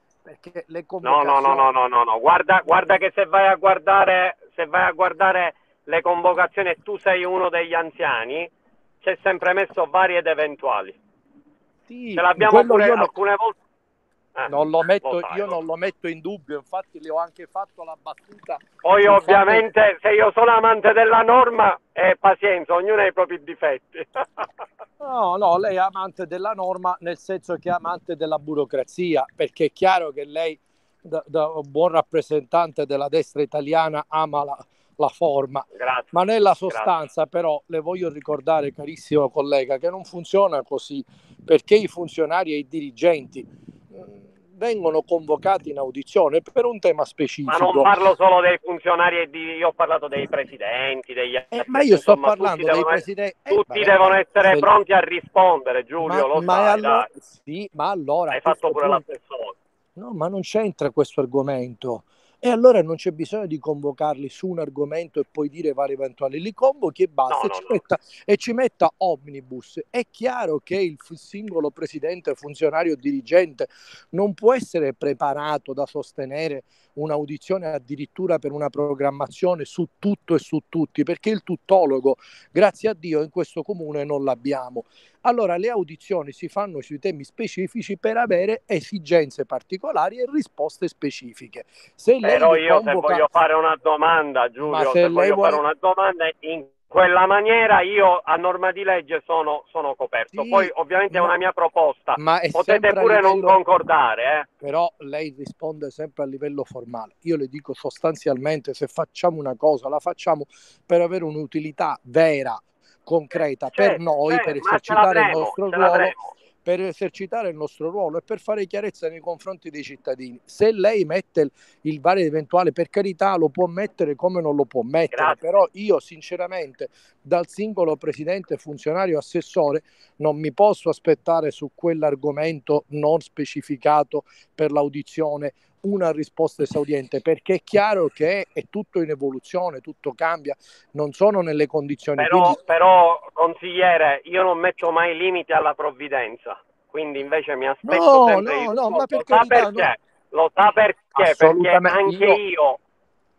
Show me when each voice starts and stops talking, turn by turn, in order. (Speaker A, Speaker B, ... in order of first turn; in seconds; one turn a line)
Speaker A: 0.3-1.7
Speaker B: 1.0-8.5
Speaker B: 9.0-11.0
Speaker A: 11.9-13.1
Speaker B: 12.2-13.6
Speaker B: 14.4-15.5
Speaker A: 14.5-19.6
Speaker B: 18.8-24.5
Speaker A: 25.0-47.9
Speaker B: 35.8-36.9
Speaker B: 47.5-57.1
Speaker A: 51.5-54.7
Speaker A: 56.0-59.0
Speaker B: 58.3-59.5
Speaker A: 60.0-93.2
Speaker B: 67.3-67.8
Speaker B: 92.2-104.5
Speaker A: 94.7-95.6
Speaker A: 100.3-101.3
Speaker A: 102.2-103.6
Speaker A: 104.6-142.6
Speaker B: 113.7-116.3
Speaker B: 125.1-125.4
Speaker B: 142.2-152.8
Speaker A: 147.8-149.9
Speaker A: 151.2-152.4